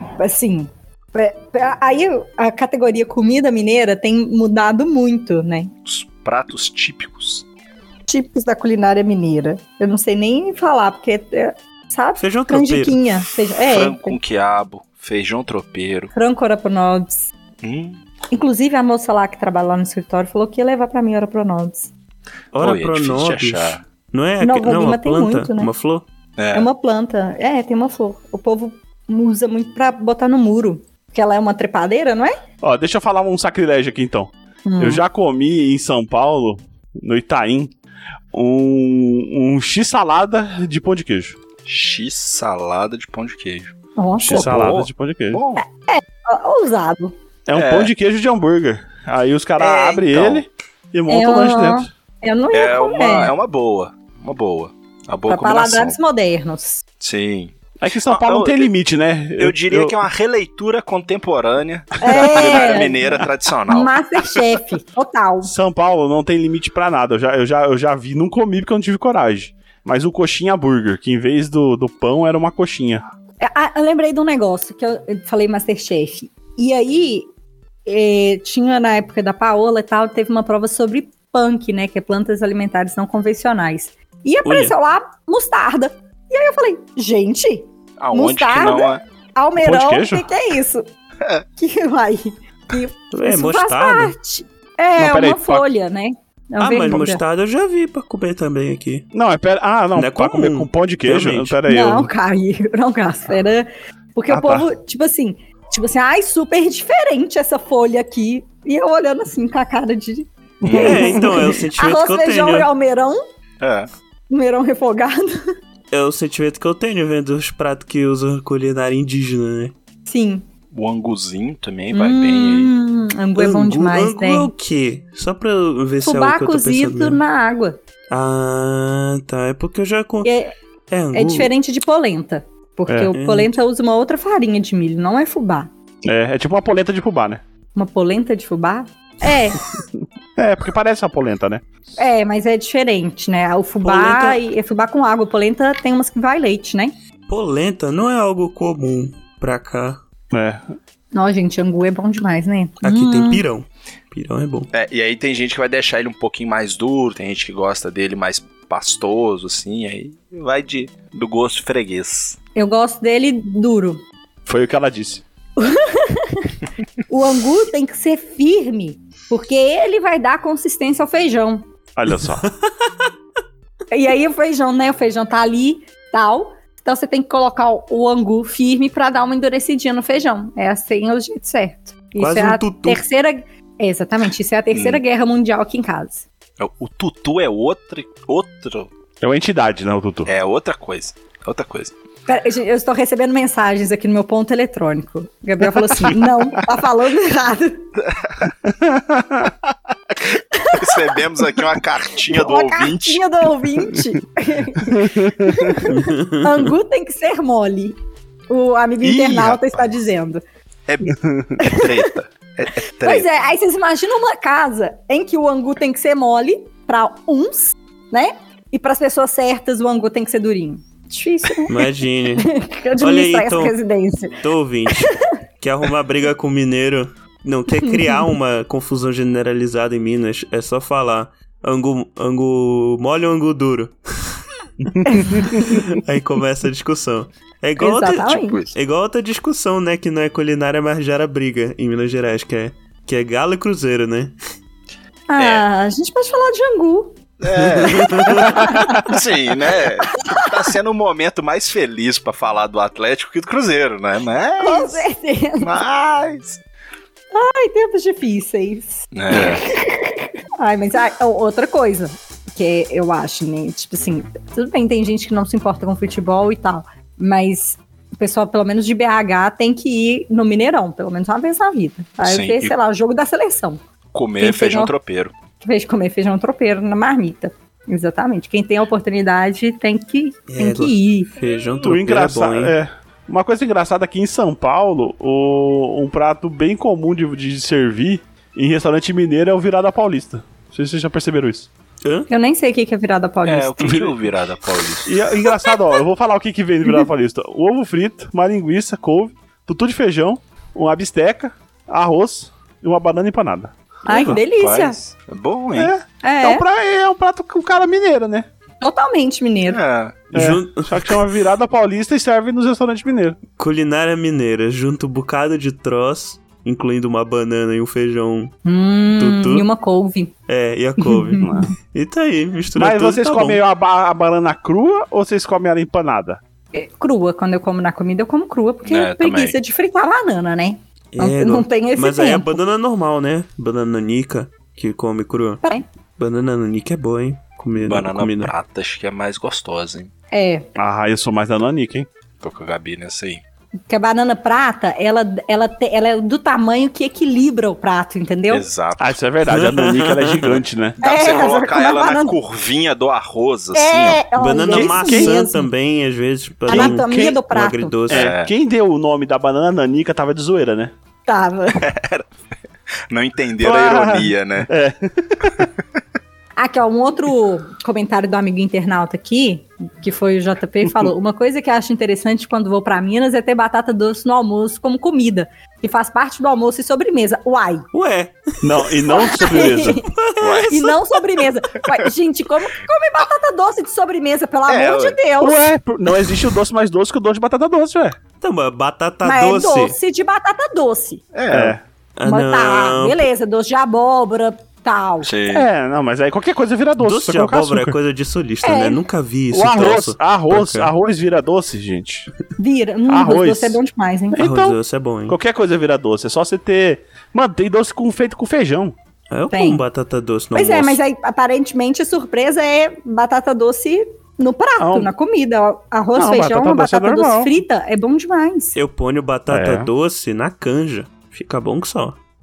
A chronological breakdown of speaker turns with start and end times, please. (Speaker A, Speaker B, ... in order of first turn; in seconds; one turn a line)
Speaker A: 0.2-5.7
Speaker B: 5.8-7.4
Speaker A: 8.1-14.2
Speaker C: 12.2-13.0
Speaker B: 13.6-16.1
Speaker A: 16.1-17.3
Speaker B: 17.6-18.0
Speaker A: 18.3-21.9
Speaker C: 22.5-26.0
Speaker B: 22.6-23.8
Speaker A: 24.4-25.7
Speaker B: 26.4-26.7
Speaker A: 26.5-32.4
Speaker D: 32.6-37.7
Speaker A: 34.6-35.0
Speaker D: 38.3-41.4
Speaker B: 41.6-43.7
Speaker A: 44.0-44.6
Speaker D: 44.2-45.4
Speaker B: 44.2-45.6
Speaker A: 45.5-47.1
Speaker D: 47.5-51.9
Speaker B: 47.5-47.9
Speaker B: 49.6-50.4
Speaker A: 51.1-53.3
Speaker B: 52.5-56.0
Speaker A: 55.3-56.8
Speaker B: 57.0-58.7
Speaker D: 57.8-60.0
Speaker B: 59.4-64.0
Speaker A: 62.0-63.0
Speaker D: 62.1-62.8
Speaker A: 63.7-65.5
Speaker D: 65.4-73.0
Speaker A: 73.4-77.3
Speaker A: 77.8-90.9
Speaker C: 84.4-84.7
Speaker B: 88.0-89.0
Speaker D: 89.5-90.3
Speaker A: 91.6-97.2
Speaker C: 93.1-94.1
Speaker D: 95.0-95.7
Speaker C: 96.6-99.1
Speaker D: 99.1-102.1
Speaker C: 99.9-101.6
Speaker A: 101.7-113.2
Speaker D: 104.3-104.7
Speaker B: 110.6-111.2
Speaker C: 110.7-112.7
Speaker B: 113.6-113.9
Speaker A: 114.3-115.4
Speaker C: 115.9-119.7
Speaker A: 120.0-120.5
Speaker B: 120.7-122.7
Speaker A: 121.9-124.5
Speaker C: 123.3-127.2
Speaker A: 126.0-127.8
Speaker C: 128.1-130.3
Speaker A: 130.2-130.5
Speaker C: 130.9-131.5
Speaker A: 131.1-135.7
Speaker C: 133.1-133.5
Speaker D: 136.0-137.4
Speaker A: 137.7-139.6
Speaker D: 140.4-141.6
Speaker A: 142.0-146.9
Speaker C: 143.8-144.4
Speaker C: 147.3-150.0
Speaker D: 150.3-150.6
Speaker A: 151.1-153.4
Speaker C: 152.8-154.7
Speaker B: 154.7-162.4
Speaker A: 162.5-164.0
Speaker D: 164.4-165.2
Speaker A: 165.6-171.7
Speaker D: 171.9-172.5
Speaker A: 173.9-186.2
Speaker C: 182.2-183.0
Speaker B: 184.7-185.0
Speaker B: 186.6-188.9
Speaker D: 189.2-190.3
Speaker B: 190.2-191.9
Speaker A: 192.3-197.9
Speaker B: 198.0-198.5
Speaker D: 198.6-199.5
Speaker A: 200.5-201.2
Speaker B: 200.7-203.2
Speaker A: 202.3-208.0
Speaker D: 204.9-205.8
Speaker C: 205.9-206.7
Speaker A: 208.5-210.4
Speaker B: 209.0-210.0
Speaker B: 210.9-213.3
Speaker D: 211.1-211.6
Speaker A: 211.6-212.1
Speaker A: 213.0-225.3
Speaker C: 221.7-223.8
Speaker C: 224.4-234.4
Speaker A: 227.8-228.2
Speaker D: 234.9-235.6
Speaker A: 235.0-235.8
Speaker C: 235.2-244.3
Speaker A: 237.8-238.6
Speaker B: 238.3-238.7
Speaker A: 245.3-247.2
Speaker B: 245.4-245.6
Speaker B: 247.4-255.0
Speaker C: 247.9-248.5
Speaker A: 248.0-249.1
Speaker A: 250.2-250.5
Speaker A: 254.6-255.8
Speaker B: 255.6-256.6
Speaker A: 257.3-273.8
Speaker B: 259.1-259.6
Speaker B: 272.2-272.7
Speaker B: 274.1-275.3
Speaker A: 274.4-274.9
Speaker A: 275.6-281.3
Speaker C: 280.5-282.7
Speaker D: 281.8-291.7
Speaker C: 292.0-292.3
Speaker A: 292.3-294.1
Speaker B: 293.4-295.2
Speaker D: 295.0-304.4
Speaker A: 304.1-305.0
Speaker B: 304.1-305.9
Speaker D: 305.7-308.5
Speaker A: 306.2-306.6
Speaker A: 308.8-309.8
Speaker B: 309.7-310.2
Speaker C: 310.3-311.2
Speaker D: 310.3-313.4
Speaker C: 313.6-318.5
Speaker A: 318.6-320.3
Speaker C: 319.2-319.6
Speaker C: 320.5-323.6
Speaker A: 321.0-321.7
Speaker D: 321.4-321.7
Speaker D: 322.8-326.4
Speaker A: 326.7-332.5
Speaker B: 328.8-329.6
Speaker C: 331.1-335.6
Speaker C: 336.2-338.5
Speaker B: 337.8-340.1
Speaker A: 340.3-340.7
Speaker D: 340.8-342.1
Speaker B: 342.4-343.4
Speaker A: 343.9-348.6
Speaker B: 348.5-349.2
Speaker D: 349.0-351.0
Speaker C: 349.5-350.6
Speaker B: 351.0-354.2
Speaker A: 351.0-352.4
Speaker A: 353.7-355.7
Speaker C: 354.4-358.3
Speaker D: 354.7-355.4
Speaker D: 356.7-357.4
Speaker A: 356.7-357.9
Speaker B: 358.1-358.5
Speaker D: 358.1-360.9
Speaker A: 361.3-361.8
Speaker B: 361.8-362.3
Speaker B: 363.1-364.7
Speaker D: 363.6-365.7
Speaker A: 366.6-377.9
Speaker D: 370.8-371.1
Speaker C: 377.9-381.2
Speaker D: 378.6-380.0
Speaker A: 379.1-380.1
Speaker B: 380.4-380.8
Speaker A: 380.7-385.7
Speaker B: 384.7-385.2
Speaker D: 385.4-388.2
Speaker C: 388.4-389.9
Speaker A: 389.2-391.2
Speaker B: 391.3-391.8
Speaker D: 391.5-391.8
Speaker C: 392.2-393.3
Speaker A: 392.2-395.3
Speaker B: 395.2-395.7
Speaker D: 395.5-398.0
Speaker C: 397.0-400.9
Speaker A: 398.6-399.0
Speaker D: 399.5-402.3
Speaker A: 402.6-404.4
Speaker D: 403.1-403.8
Speaker D: 404.3-408.9
Speaker C: 404.4-405.4
Speaker C: 409.3-411.0
Speaker A: 409.5-409.8
Speaker A: 410.5-418.8
Speaker D: 414.8-415.1
Speaker D: 416.1-417.6
Speaker C: 418.8-422.2
Speaker D: 419.5-419.9